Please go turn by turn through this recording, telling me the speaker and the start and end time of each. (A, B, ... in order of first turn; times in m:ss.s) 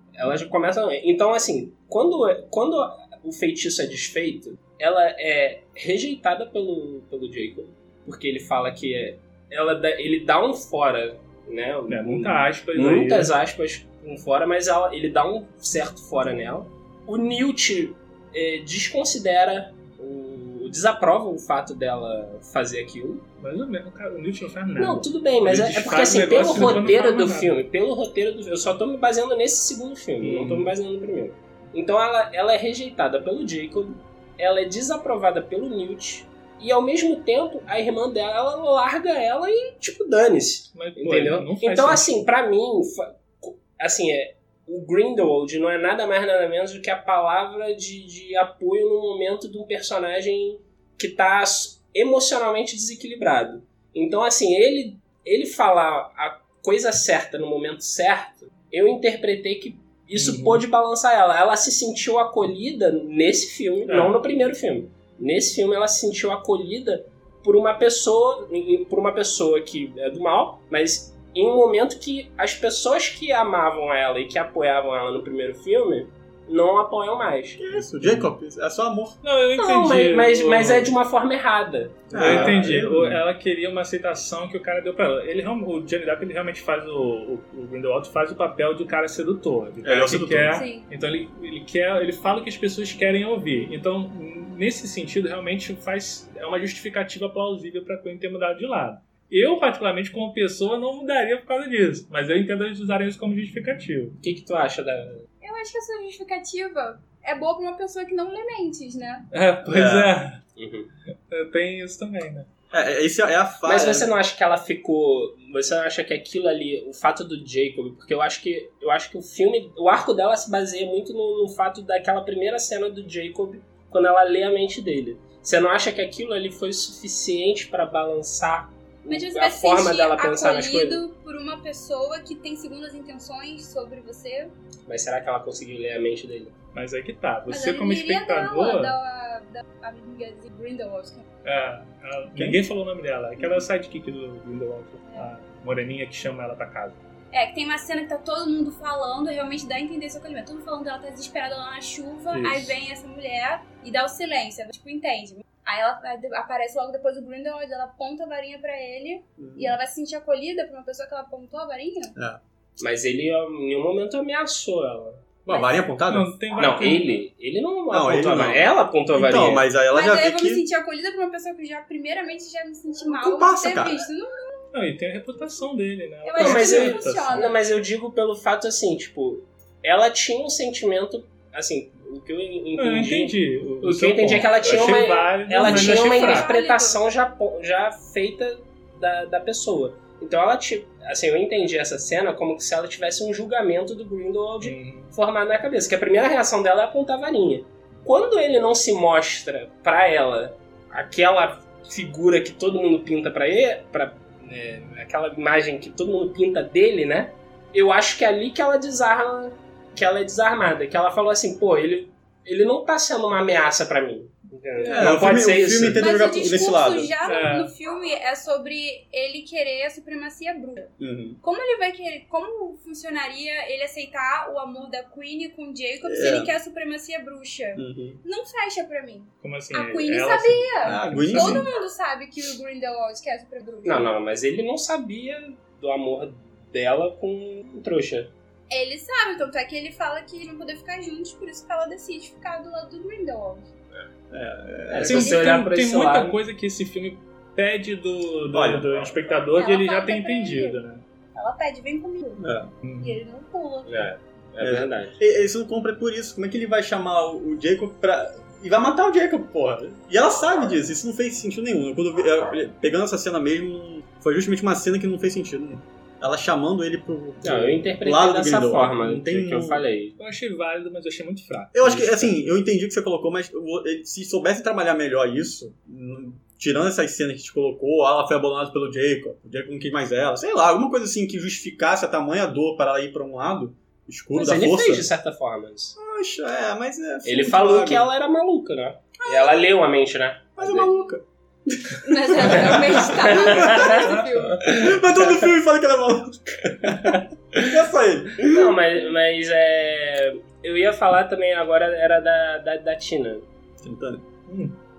0:00.2-0:23.3 A
0:11.9-0:13.3 B
0:23.4-0:27.6 B
0:24.8-1:17.6 A
0:30.2-0:30.7 B
0:40.7-0:42.1 B
1:00.2-1:00.6 B
1:03.9-1:04.2 B
1:17.6-1:19.2 C
1:17.8-1:18.3 B
1:19.2-1:20.9 B
1:19.6-1:22.6 A
1:22.1-1:23.2 C
1:22.1-1:44.2 B
1:29.8-1:30.7 C
1:30.5-1:30.9 D
1:44.2-1:45.3 A
1:45.4-1:49.3 D
1:49.3-1:50.4 B
1:49.7-1:50.1 C
1:50.6-1:50.9 A
1:51.3-1:52.5 B
1:52.7-1:54.1 C
1:53.6-2:11.0 A
2:09.1-2:14.5 D
2:14.9-2:16.6 A
2:16.7-2:19.0 B
2:17.5-2:21.2 D
2:21.4-2:27.0 B
2:22.4-2:22.6 C
2:27.3-2:42.2 D
2:32.3-2:32.8 C
2:39.4-2:39.8 C
2:42.8-2:45.3 A
2:45.5-2:46.3 C
2:45.5-2:45.9 D
2:46.1-2:47.2 B
2:46.6-2:49.7 A
2:47.9-2:50.6 C
2:49.9-2:54.6 D
2:53.2-2:54.1 C
2:54.7-2:57.5 B
2:56.2-2:57.6 D
2:56.4-3:36.1 A
3:02.8-3:06.5 B
3:05.6-3:07.0 D
3:14.6-3:15.1 B
3:34.8-3:37.1 C
3:35.9-3:54.1 D
3:37.2-3:37.7 B
3:41.0-3:41.4 C
3:46.0-3:46.6 C
3:47.8-3:48.2 C
3:49.4-3:51.7 B
3:50.8-3:51.7 C
3:53.8-3:58.3 A
3:58.7-4:03.7 D
4:04.3-4:05.6 C
4:04.9-4:06.4 A
4:05.1-4:11.0 B
4:08.5-4:09.1 C
4:09.6-4:10.8 D
4:11.4-4:14.1 D
4:12.4-4:12.7 C
4:12.8-4:13.2 B
4:13.9-4:15.2 A
4:14.6-4:29.8 C
4:27.4-4:30.2 A
4:30.2-4:32.4 B
4:31.7-4:45.1 C
4:44.3-4:46.0 A
4:46.0-4:48.1 C
4:47.2-4:51.0 A
4:50.6-4:51.2 C
4:51.8-4:54.6 D
4:52.2-4:54.1 C
4:52.4-4:55.4 A
4:54.7-4:58.8 C
4:58.4-5:03.4 A
5:03.8-5:04.2 C
5:04.5-5:04.8 B